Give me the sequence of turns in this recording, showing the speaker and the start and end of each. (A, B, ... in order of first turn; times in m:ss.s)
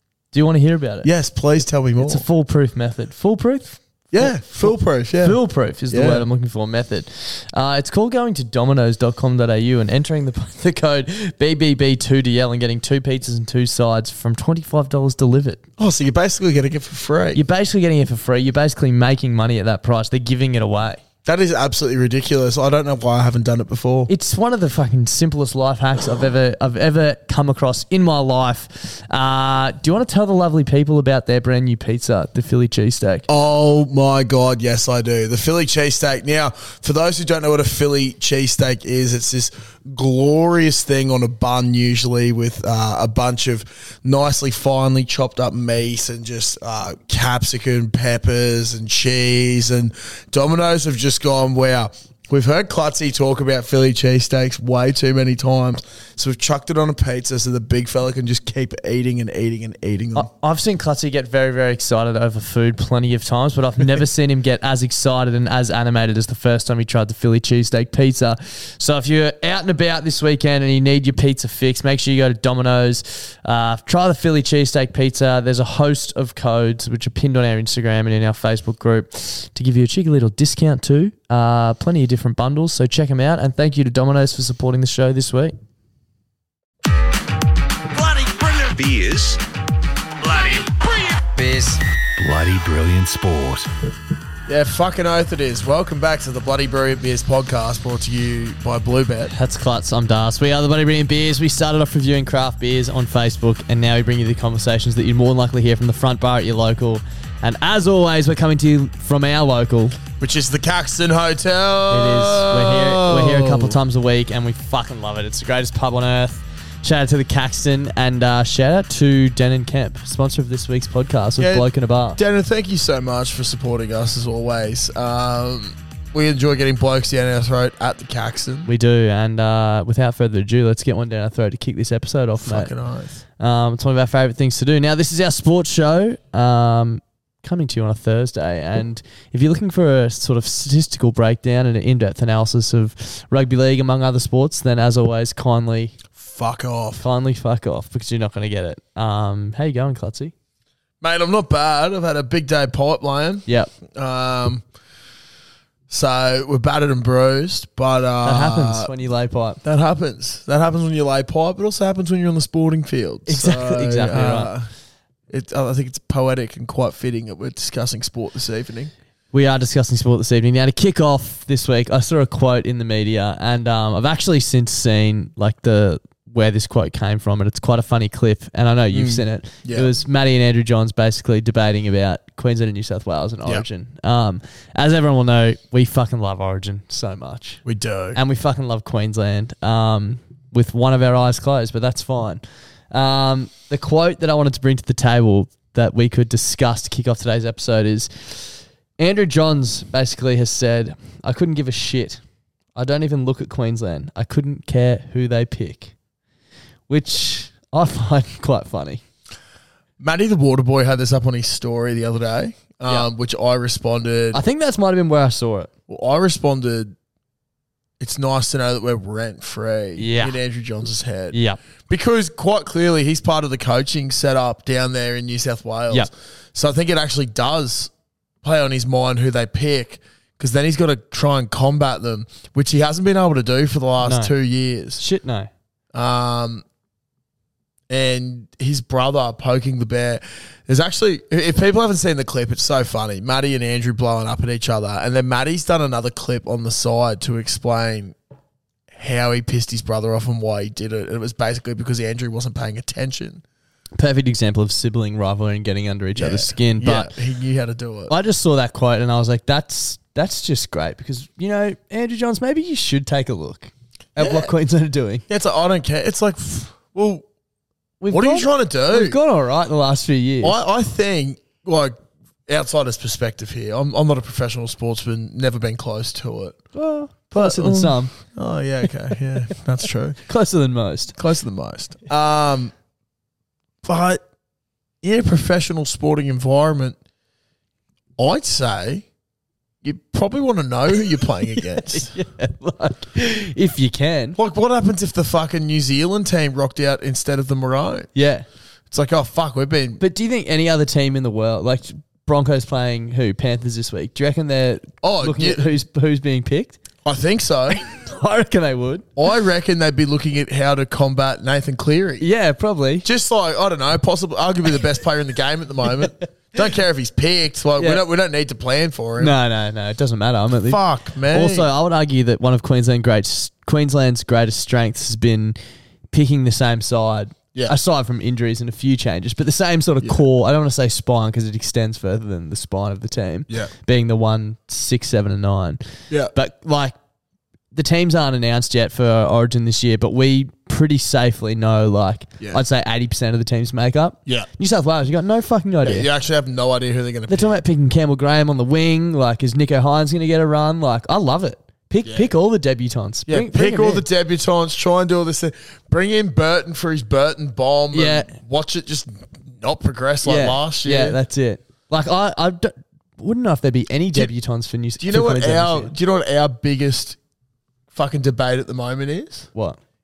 0:00.3-0:01.1 A
0:01.0-0:02.2 B
0:02.0-0:15.6 A
0:04.1-0:05.4 B
0:05.9-0:06.3 B
0:15.8-0:17.4 B
0:17.3-0:21.0 A
0:21.2-0:24.1 B
0:24.1-0:33.3 A
0:33.3-1:00.3 B
1:00.2-1:25.6 A
1:27.9-1:29.4 C
1:30.2-1:33.7 C
1:34.5-1:39.3 B
1:39.3-1:50.0 A
1:50.2-1:53.8 B
1:51.9-2:02.2 A
2:01.4-2:08.7 B
2:08.7-2:12.7 A
2:12.4-2:13.2 B
2:13.4-2:26.0 A
2:26.2-2:27.0 B
2:27.0-2:30.3 A
2:31.0-2:34.6 B
2:35.9-2:38.9 B
2:38.2-2:39.6 A
2:39.6-2:44.7 B
2:43.3-2:44.5 A
2:45.3-2:48.9 B
2:49.3-3:07.6 A
2:58.9-2:59.9 B
3:07.6-3:08.2 B
3:08.1-3:22.2 A
3:22.8-3:25.9 A
3:26.9-3:29.0 A
3:30.0-3:34.4 B
3:34.3-3:35.7 A
3:35.9-3:37.0 B
3:38.0-3:41.4 B
3:40.0-3:40.4 A
3:41.3-3:41.6 A
3:41.9-3:47.9 B
3:48.4-3:55.0 B
3:54.0-3:54.3 A
3:55.0-3:55.5 A
3:55.9-3:56.6 B
3:57.9-4:08.2 B
4:08.9-4:13.4 B
4:14.0-4:17.1 A
4:16.2-4:18.1 B
4:18.1-4:25.2 A
4:24.2-4:24.5 B
4:25.3-4:27.2 B
4:28.0-4:30.6 A
4:28.1-4:29.2 B
4:30.4-4:32.0 B
4:32.5-4:36.6 B
4:36.7-4:38.1 A
4:37.3-4:40.2 B
4:40.3-4:41.2 A
4:41.2-4:42.7 B
4:43.8-4:44.2 B
4:45.0-4:47.0 B
4:48.2-4:49.0 B
4:49.8-4:52.2 B
4:51.6-4:54.4 A
4:54.4-4:58.1 B
4:58.2-4:58.5 A
4:58.9-5:00.0 B
5:00.0-5:06.8 A
5:05.0-5:05.6 B
5:07.0-5:07.8 B
5:07.8-5:09.1 A
5:09.2-5:12.3 B
5:12.2-5:13.1 A
5:13.0-5:19.3 B
5:16.0-5:16.2 A
5:17.8-5:18.0 A
5:19.2-5:25.6 A
5:20.6-5:21.7 B
5:26.1-5:37.0 A
5:37.7-5:46.1 A
5:45.8-5:47.6 B
5:47.3-5:54.0 A
5:52.0-5:52.3 B
5:53.3-6:01.2 B
5:57.9-5:58.3 A
6:00.2-6:05.9 A
6:05.0-6:07.2 B
6:07.9-6:09.5 B